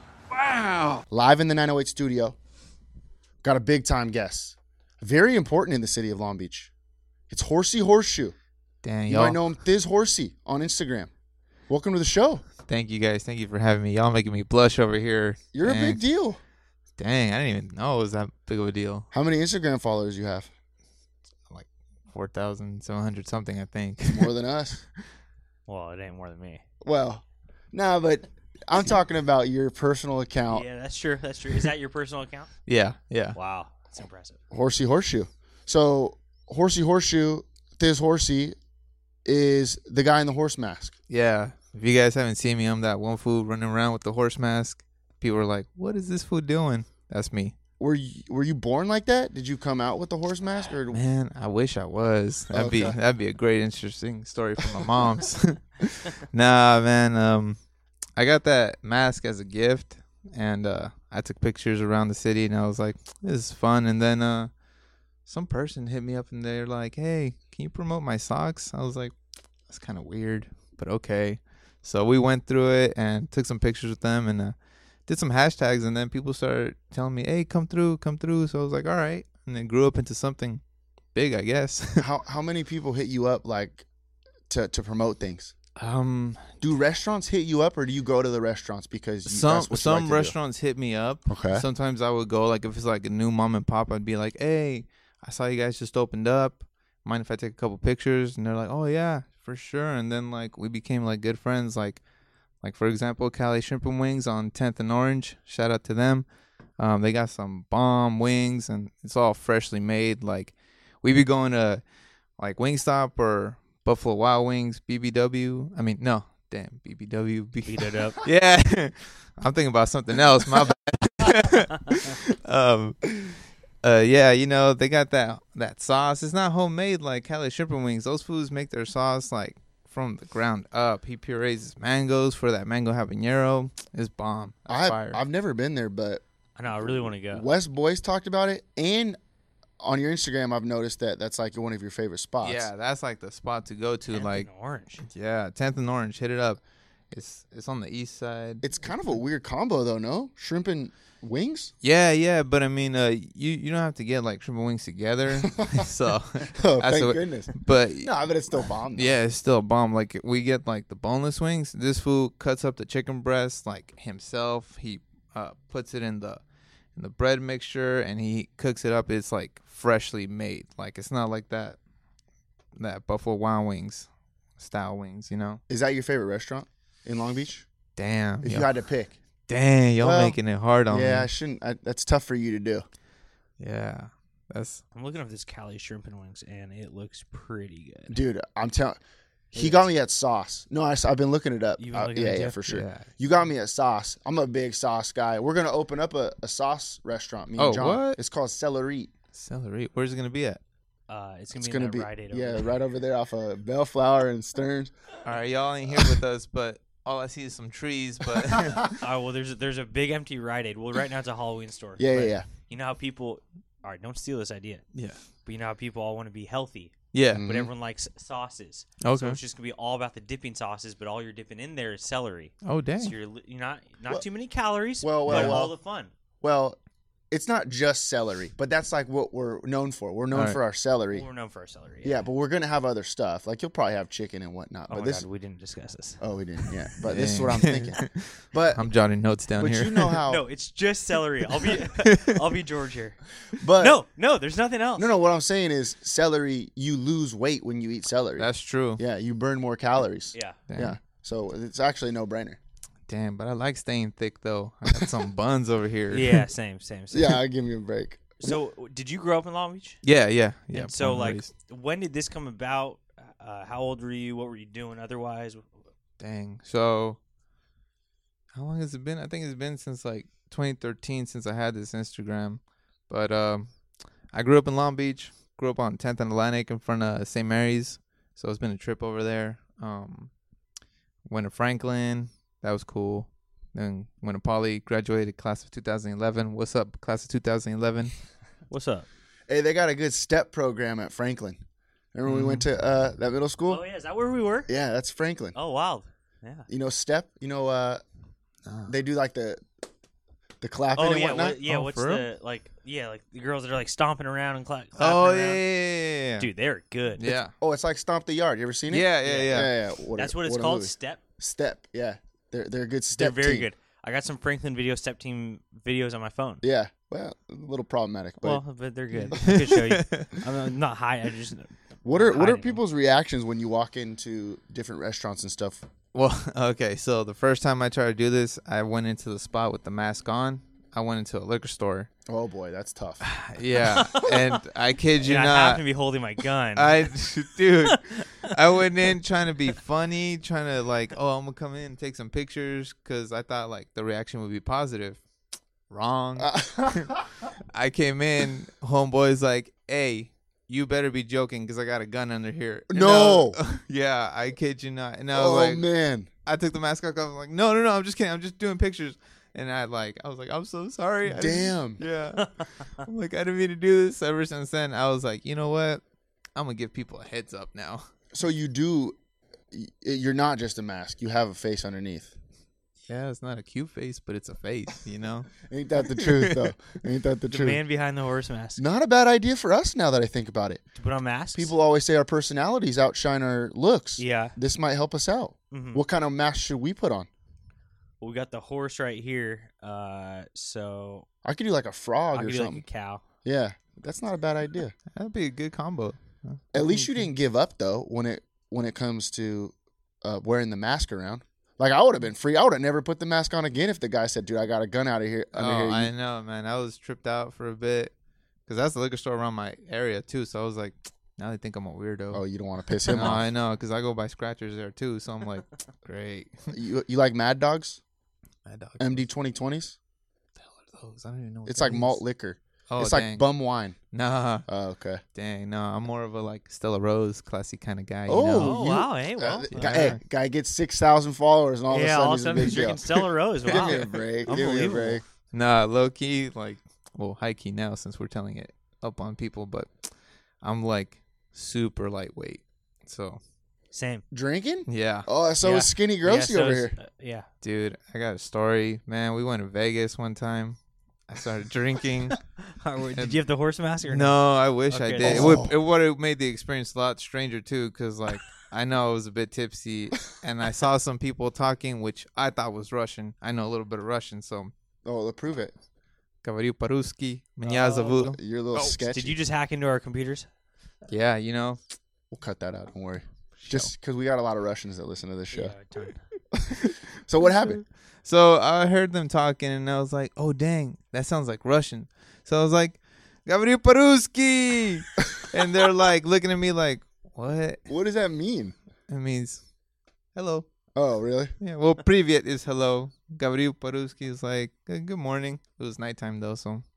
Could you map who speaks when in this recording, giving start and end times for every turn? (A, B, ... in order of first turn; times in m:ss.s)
0:01.1-0:02.4 A
0:03.4-0:06.7 A
0:07.3-0:08.4 A
0:08.8-0:09.4 B
0:09.1-0:11.1 A
0:11.7-0:12.4 A
0:12.7-0:16.0 B
0:15.5-0:16.4 A
0:17.0-0:19.1 B
0:19.1-0:20.5 A
0:21.5-0:24.3 B
0:24.1-0:24.8 A
0:25.7-0:26.6 C
0:26.8-0:30.6 A
0:30.5-0:32.5 C
0:32.7-0:33.4 B
0:33.4-0:34.4 C
0:34.5-0:38.6 A
0:39.2-0:41.0 A
0:41.1-0:47.6 B
0:47.8-0:51.0 A
0:50.9-0:57.6 B
0:52.5-0:53.0 A
0:58.2-1:04.5 B
1:05.3-1:09.1 B
1:09.7-1:14.6 B
1:15.1-1:20.6 B
1:21.1-1:22.1 B
1:22.0-1:23.9 A
1:24.5-1:25.5 A
1:25.8-1:26.6 B
1:26.6-1:30.4 A
1:29.3-1:42.0 B
1:31.3-1:31.7 A
1:42.6-1:46.3 B
1:46.8-1:51.8 B
1:52.4-2:15.2 B
1:57.7-1:58.2 C
2:14.7-2:19.2 A
2:16.6-2:17.5 C
2:19.8-2:22.7 A
2:22.4-2:24.5 B
2:24.1-2:25.0 C
2:25.0-2:26.6 B
2:27.1-2:28.6 B
2:28.6-2:31.7 A
2:31.8-2:46.4 B
2:35.4-2:35.8 A
2:36.5-2:39.2 A
2:47.0-2:51.8 B
2:52.8-2:55.6 B
2:55.7-2:57.7 A
2:58.0-2:58.7 B
2:58.4-2:59.2 A
2:59.5-3:01.3 B
3:00.0-3:00.4 A
3:00.9-3:02.9 A
3:03.6-3:04.8 B
3:05.0-3:08.2 C
3:08.1-3:09.0 A
3:09.5-3:09.9 C
3:09.5-3:19.1 A
3:11.8-3:12.6 C
3:12.7-3:13.1 B
3:17.6-3:18.2 B
3:19.3-3:20.6 B
3:21.1-3:22.7 C
3:21.6-3:24.9 A
3:25.2-3:29.0 B
3:29.0-3:34.8 C
3:32.0-3:32.5 A
3:34.9-3:35.2 B
3:35.4-3:46.1 C
3:37.1-3:37.5 B
3:37.3-3:37.7 A
3:39.0-3:39.4 B
3:42.6-3:43.2 B
3:45.0-3:45.8 A
3:45.3-3:45.7 B
3:46.4-3:46.8 A
3:47.3-3:51.3 A
3:50.3-3:50.6 B
3:51.1-3:52.2 C
3:52.0-3:55.3 A
3:54.9-3:56.2 C
3:56.2-3:58.8 A
3:57.0-4:00.2 B
3:59.6-4:00.4 A
4:00.3-4:03.2 C
4:01.8-4:02.4 B
4:03.6-4:04.0 A
4:03.8-4:05.1 C
4:05.0-4:12.6 A
4:08.4-4:09.0 B
4:10.7-4:11.0 B
4:13.1-4:16.4 B
4:16.1-4:17.4 C
4:17.1-4:18.6 A
4:18.4-4:20.0 C
4:20.0-4:21.5 B
4:20.7-4:25.7 C
4:26.2-4:27.2 B
4:28.5-4:33.7 B
4:34.3-4:40.3 B
4:41.3-4:48.2 B
4:48.7-4:49.1 C
4:49.5-4:51.6 A
4:52.1-4:53.8 A
4:52.3-4:52.7 B
4:53.7-4:54.7 C
4:54.7-4:55.6 A
4:55.6-4:56.7 C
4:56.7-4:58.0 A
4:58.7-4:59.0 B
4:58.9-4:59.6 A
5:00.6-5:01.6 A
5:01.0-5:05.6 C
5:01.6-5:02.3 B
5:05.0-5:06.5 B
5:06.4-5:07.2 C
5:07.2-5:07.5 B
5:07.6-5:13.7 A
5:08.9-5:09.7 B
5:09.2-5:11.2 C
5:13.1-5:16.6 C
5:16.6-5:18.6 A
5:18.4-5:22.8 C
5:19.1-5:20.4 B
5:22.0-5:25.9 A
5:26.1-5:32.1 B
5:32.3-5:33.3 A
5:33.2-5:35.8 B
5:34.0-5:34.6 C
5:35.2-5:37.1 C
5:36.8-5:45.2 B
5:37.9-5:38.2 C
5:45.9-5:47.2 B
5:46.4-5:47.3 A
5:47.7-5:55.8 B
5:52.9-5:53.6 A
5:55.3-5:56.3 A
5:56.5-6:06.0 B
6:01.3-6:02.0 A
6:06.6-6:08.1 B
6:08.3-6:09.2 A
6:09.7-6:12.4 A
6:13.1-6:15.5 B
6:15.7-6:17.8 A
6:16.1-6:16.7 B
6:17.5-6:18.8 C
6:18.8-6:20.8 A
6:21.0-6:21.7 C
6:21.5-6:27.3 A
6:24.2-6:24.6 C
6:25.7-6:26.0 C
6:28.2-6:31.3 C
6:31.4-6:32.8 A
6:32.3-6:33.2 C
6:33.4-6:35.0 A
6:35.1-6:37.2 B
6:36.7-6:46.1 A
6:45.6-6:48.1 B
6:48.7-6:52.4 B
6:52.3-6:53.5 A
6:53.0-6:56.7 B
6:56.7-6:58.0 A
6:58.7-6:59.2 B
6:59.0-7:00.0 A
7:00.6-7:02.2 B
7:01.7-7:04.0 A
7:02.9-7:03.5 B
7:04.1-7:04.6 B
7:04.7-7:05.2 A
7:05.4-7:08.8 B
7:08.3-7:15.2 A
7:08.6-7:10.1 C
7:09.8-7:10.2 B
7:11.9-7:15.2 C
7:13.7-7:14.1 B
7:15.5-7:23.4 B
7:23.9-7:24.2 C
7:24.3-7:27.0 A
7:24.9-7:25.3 B
7:25.6-7:27.5 C
7:27.6-7:30.8 B
7:31.3-7:32.4 B
7:32.6-7:35.6 C
7:34.1-7:44.7 B
7:35.2-7:35.8 A
7:45.0-7:45.7 A
7:46.4-7:48.4 B
7:47.7-7:48.2 C
7:48.0-7:49.4 A
7:48.7-7:50.5 C
7:51.1-7:51.8 B
7:52.3-7:55.8 A
7:53.6-7:53.9 B
7:55.5-7:56.2 C
7:56.6-7:57.8 A
7:57.6-8:07.8 B
8:07.9-8:08.8 A
8:09.1-8:09.6 B
8:10.4-8:10.7 B
8:11.0-8:11.5 A
8:11.6-8:16.8 B